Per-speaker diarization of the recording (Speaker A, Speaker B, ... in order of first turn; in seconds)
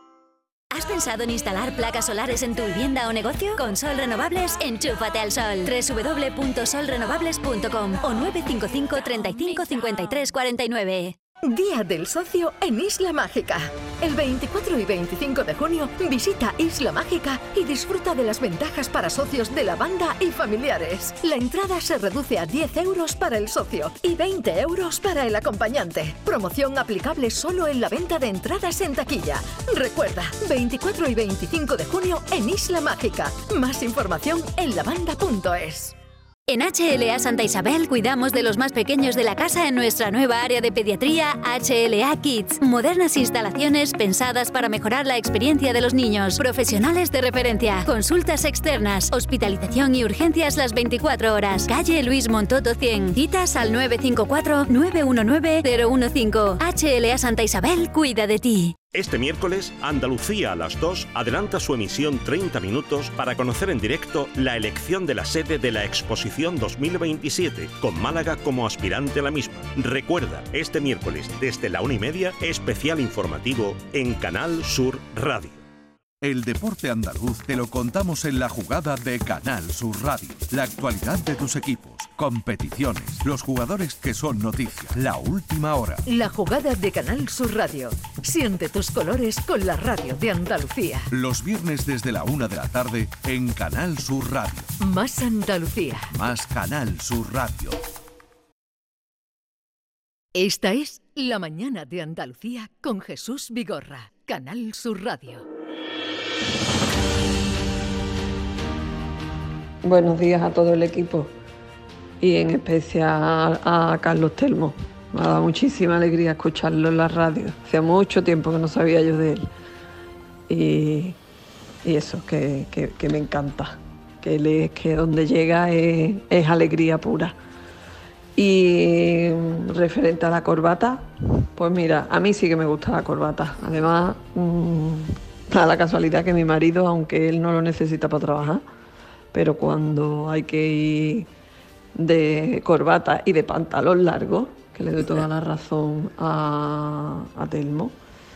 Speaker A: 0.7-11.1, 36.5-58.7
Speaker B: 11.4-35.9
Speaker C: 58.9-75.6
Speaker D: 76.2-86.0, 91.1-94.7, 96.1-97.8
Speaker E: 86.0-91.1, 94.8-96.1, 100.3-105.4
Speaker F: 109.8-111.3, 112.2-119.5, 120.5-121.2, 121.8-127.3, 128.3-138.6, 139.3-141.3, 142.0-147.9